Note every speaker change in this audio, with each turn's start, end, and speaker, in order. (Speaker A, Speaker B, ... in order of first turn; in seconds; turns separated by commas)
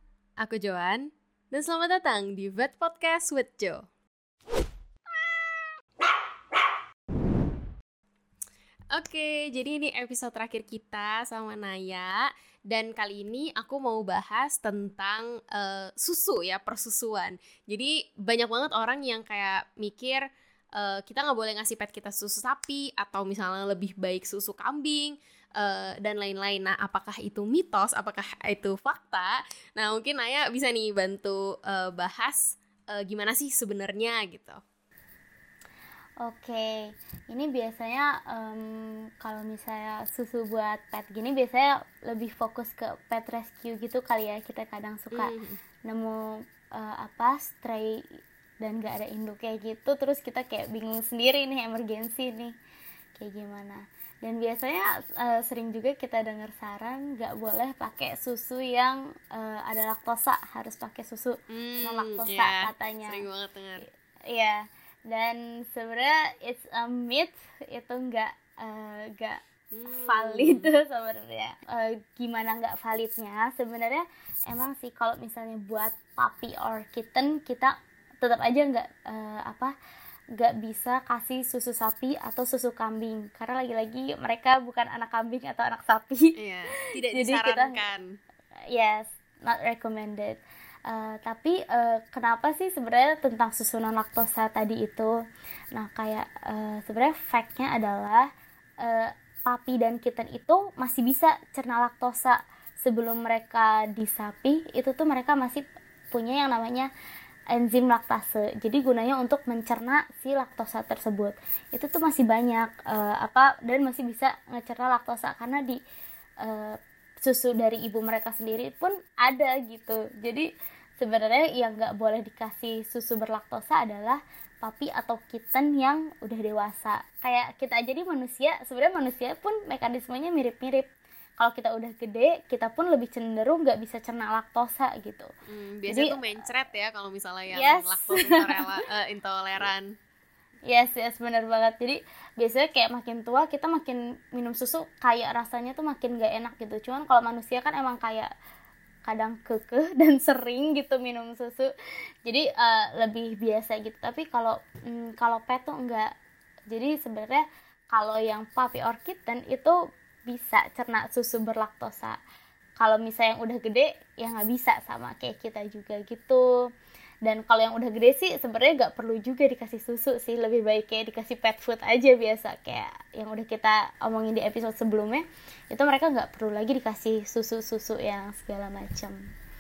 Speaker A: 0.4-3.9, Speaker A: 8.9-20.2, Speaker A: 20.8-34.6, Speaker B: 36.2-45.3, Speaker A: 45.1-45.6, Speaker B: 45.9-48.1, Speaker B: 48.6-52.5, Speaker B: 53.2-63.2, Speaker A: 61.5-63.9, Speaker B: 64.3-79.8, Speaker A: 69.7-70.7, Speaker B: 80.4-86.3, Speaker A: 86.4-88.2, Speaker B: 87.1-87.8, Speaker B: 88.7-95.1, Speaker B: 95.7-98.3, Speaker B: 98.8-106.9, Speaker B: 107.5-115.8, Speaker B: 116.4-120.5, Speaker B: 121.0-130.9, Speaker B: 131.4-135.3, Speaker A: 135.5-139.9, Speaker B: 135.9-136.2, Speaker B: 137.5-138.7, Speaker B: 140.7-148.3, Speaker B: 149.1-151.7, Speaker B: 152.2-156.1, Speaker B: 156.7-162.2, Speaker B: 162.8-166.7, Speaker B: 167.2-179.2